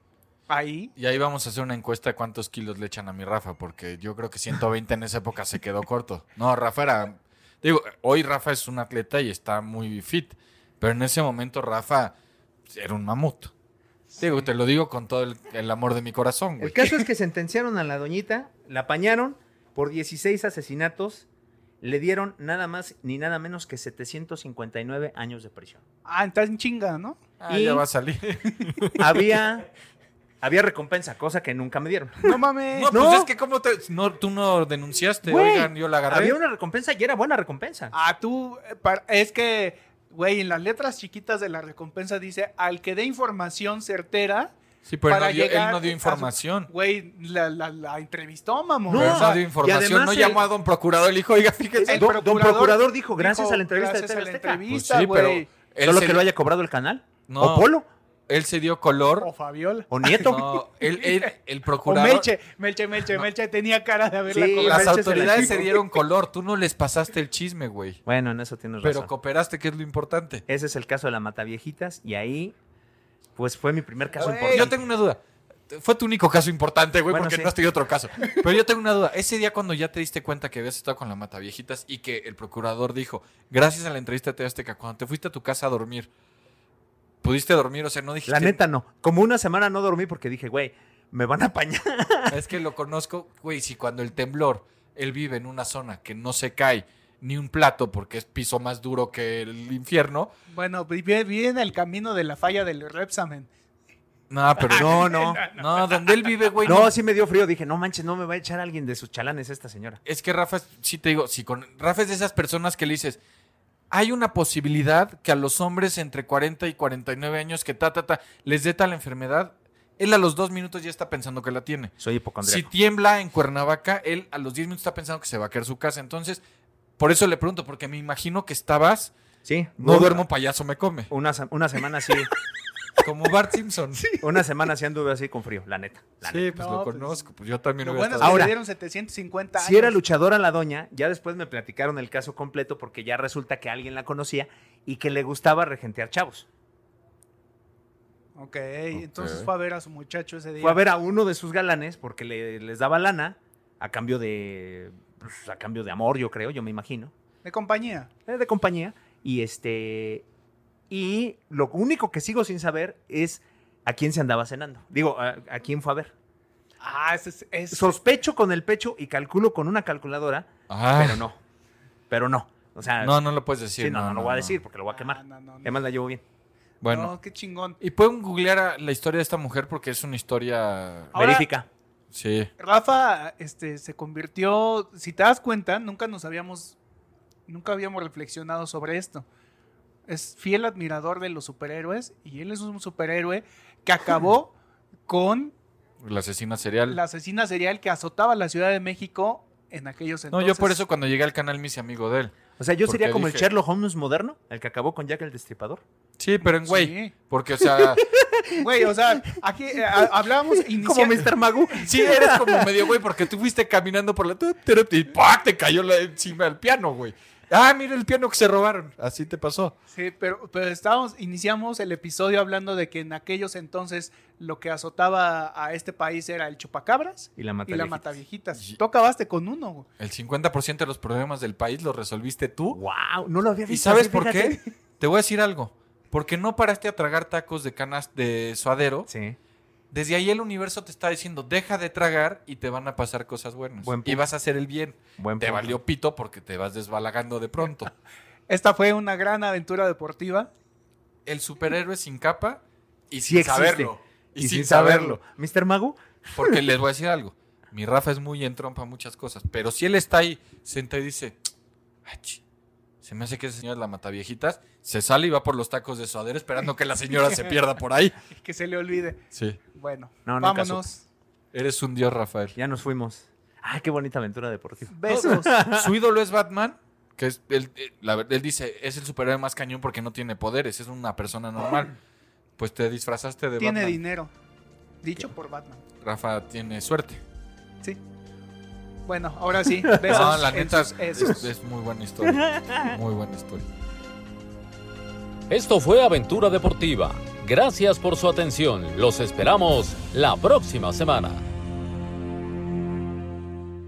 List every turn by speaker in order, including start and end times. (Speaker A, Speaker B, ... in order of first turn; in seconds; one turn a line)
Speaker A: 0.5-0.9
Speaker B: 0.9-12.1
Speaker B: 12.7-13.5
Speaker B: 14.2-16.7
Speaker C: 16.6-21.3
Speaker C: 21.8-25.8
Speaker A: 26.1-27.2
Speaker B: 27.4-29.0
Speaker C: 27.5-27.9
Speaker C: 29.0-29.7
Speaker C: 30.4-32.4
Speaker A: 32.2-32.9
Speaker B: 32.7-36.4
Speaker C: 32.9-33.3
Speaker C: 35.2-37.9
Speaker A: 37.9-44.5
Speaker B: 44.9-46.7
Speaker A: 45.0-49.4
Speaker C: 48.9-50.5
Speaker B: 48.9-52.0
Speaker C: 51.8-54.6
Speaker A: 51.9-55.5
Speaker B: 54.7-56.2
Speaker C: 55.8-57.9
Speaker B: 57.3-57.7
Speaker B: 58.3-59.3
Speaker A: 59.2-65.7
Speaker C: 59.9-60.5
Speaker B: 60.2-62.3
Speaker C: 64.3-65.8
Speaker B: 64.6-68.0
Speaker C: 68.0-69.1
Speaker B: 68.8-70.4
Speaker C: 70.5-72.5
Speaker C: 73.4-74.8
Speaker A: 74.2-74.7
Speaker B: 74.2-86.1
Speaker C: 77.1-77.5
Speaker B: 87.2-88.6
Speaker C: 88.3-92.4
Speaker B: 92.3-100.3
Speaker A: 100.5-103.5
Speaker B: 104.3-106.9
Speaker A: 104.6-106.7
Speaker C: 104.7-105.5
Speaker C: 106.6-110.0
Speaker B: 110.0-113.2
Speaker B: 113.9-121.9
Speaker C: 122.0-122.7
Speaker B: 122.4-126.4
Speaker B: 127.0-129.1
Speaker C: 129.4-130.2
Speaker B: 129.8-131.1
Speaker C: 131.1-132.3
Speaker B: 133.0-134.1
Speaker C: 134.2-136.5
Speaker B: 136.3-138.5
Speaker A: 136.5-137.3
Speaker A: 137.8-140.0
Speaker C: 138.2-138.6
Speaker C: 139.6-146.4
Speaker A: 148.4-150.8
Speaker B: 148.9-149.5
Speaker C: 150.6-157.1
Speaker A: 157.4-158.1
Speaker C: 158.3-160.2
Speaker C: 160.9-166.1
Speaker A: 166.8-167.9
Speaker C: 167.7-171.4
Speaker B: 170.7-171.2
Speaker C: 172.1-173.2
Speaker B: 173.0-174.6
Speaker C: 173.8-176.2
Speaker A: 174.9-175.7
Speaker B: 176.8-177.1
Speaker A: 176.9-177.8
Speaker B: 177.8-181.1
Speaker A: 181.1-181.5
Speaker C: 181.1-181.7
Speaker B: 182.1-182.5
Speaker A: 182.6-186.8
Speaker A: 187.5-189.2
Speaker A: 190.1-194.6
Speaker A: 195.1-195.5
Speaker B: 196.0-197.0
Speaker A: 196.9-200.8
Speaker B: 200.3-202.3
Speaker C: 202.6-205.8
Speaker B: 202.9-203.4
Speaker B: 206.2-208.1
Speaker A: 206.6-207.1
Speaker C: 207.6-209.4
Speaker A: 208.6-211.4
Speaker C: 210.7-213.0
Speaker B: 211.8-219.7
Speaker A: 219.9-229.9
Speaker C: 227.4-228.2
Speaker B: 230.0-232.8
Speaker C: 232.7-234.6
Speaker B: 233.7-239.1
Speaker C: 239.1-239.4
Speaker B: 239.9-247.9
Speaker C: 243.8-244.2
Speaker C: 245.2-245.8
Speaker A: 248.5-250.5
Speaker B: 251.3-255.2
Speaker C: 253.3-256.7
Speaker B: 256.4-261.4
Speaker B: 262.1-262.4
Speaker B: 263.0-268.2
Speaker A: 268.3-269.2
Speaker B: 269.3-269.6
Speaker A: 269.7-271.0
Speaker C: 270.3-270.9
Speaker B: 271.5-272.6
Speaker C: 272.6-275.9
Speaker A: 274.9-275.6
Speaker B: 275.2-282.0
Speaker B: 282.6-284.0
Speaker A: 283.6-284.3
Speaker A: 285.0-285.8
Speaker B: 286.0-287.2
Speaker A: 289.1-291.5
Speaker C: 289.9-290.3
Speaker B: 290.1-293.7
Speaker C: 292.2-292.9
Speaker D: 295.5-301.4